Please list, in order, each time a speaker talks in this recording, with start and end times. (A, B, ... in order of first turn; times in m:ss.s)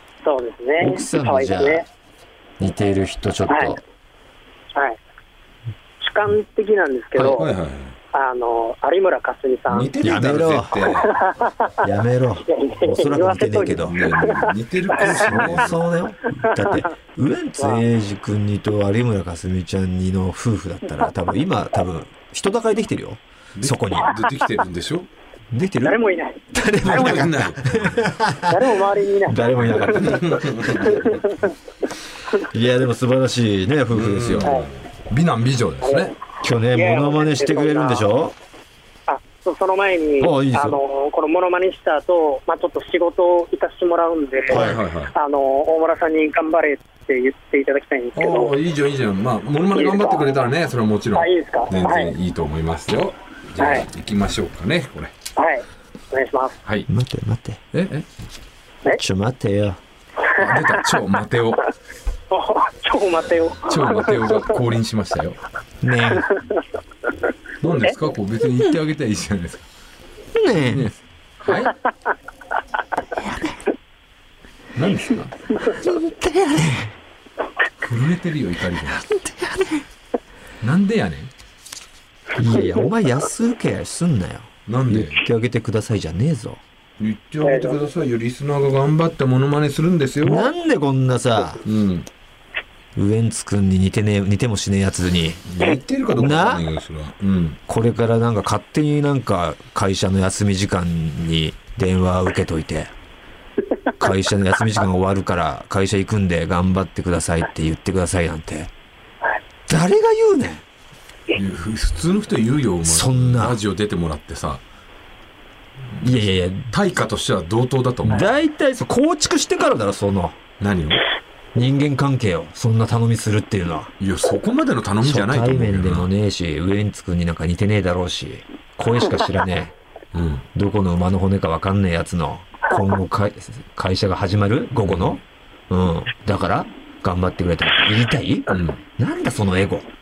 0:00.2-0:01.9 A
0:00.8-0:01.9 B
0:02.6-0:03.8 B
0:03.5-0:03.8 A
0:06.0-0:07.5 A
0:07.2-0:07.4 B
0:07.4-0:08.0 C
0:08.1-0:09.9 A
0:09.7-0:11.1 C
0:10.0-0:10.9 B
0:10.9-0:11.9 A
0:11.8-0:14.0 B
0:12.5-0:15.6 A
0:13.8-0:15.8 C
0:15.0-0:24.2 B
0:16.5-0:16.8 A
0:17.6-0:17.8 A
0:23.6-0:25.1 C
0:25.5-0:26.0 B
0:25.8-0:26.4 A
0:26.5-0:30.4 B
0:26.8-0:28.0 C
0:28.5-0:31.5 A
0:29.8-0:31.2 C
0:32.5-0:34.5 B
0:33.9-0:36.1 C
0:34.4-0:34.7 A
0:35.8-0:36.2 A
0:36.4-0:38.4 B
0:36.7-0:38.1 A
0:39.1-0:48.6 A
0:40.2-0:40.8 B
0:44.5-0:44.8 B
0:44.5-0:45.1 C
0:48.2-0:55.1 C
0:49.8-0:50.4 A
0:51.2-0:52.1 A
0:53.6-0:53.9 A
0:55.4-0:56.6 A
0:56.9-0:57.6 B
0:57.7-0:58.1 C
0:58.9-0:59.8 B
1:00.3-1:00.6 A
1:00.4-1:01.6 C
1:02.3-1:04.6 A
1:03.7-1:05.4 C
1:05.8-1:06.3 B
1:06.1-1:06.6 A
1:07.6-1:09.7 C
1:10.4-1:10.9 B
1:10.6-1:11.8 C
1:13.2-1:13.6 B
1:14.8-1:15.5 C
1:15.6-1:17.0 B
1:17.8-1:19.0 C
1:19.0-1:19.8 B
1:20.6-1:21.3 C
1:22.4-1:26.6 B
1:24.7-1:25.3 C
1:27.0-1:30.5 C
1:27.4-1:27.8 A
1:30.2-1:31.6 B
1:31.6-1:32.1 C
1:33.0-1:35.5 B
1:35.5-1:37.6 C
1:36.2-1:36.6 B
1:37.7-1:42.9 B
1:44.0-1:48.7 B
1:49.7-1:50.6 B
1:51.3-1:54.6 C
1:52.9-1:53.6 B
1:55.9-1:56.2 C
1:56.0-1:56.7 B
1:56.7-1:58.3 C
1:58.1-2:00.4 B
2:00.6-2:01.0 C
2:01.6-2:03.9 B
2:04.0-2:06.1 C
2:05.0-2:09.7 B
2:10.1-2:10.5 C
2:10.6-2:19.9 B
2:14.8-2:15.2 C
2:18.5-2:18.8 C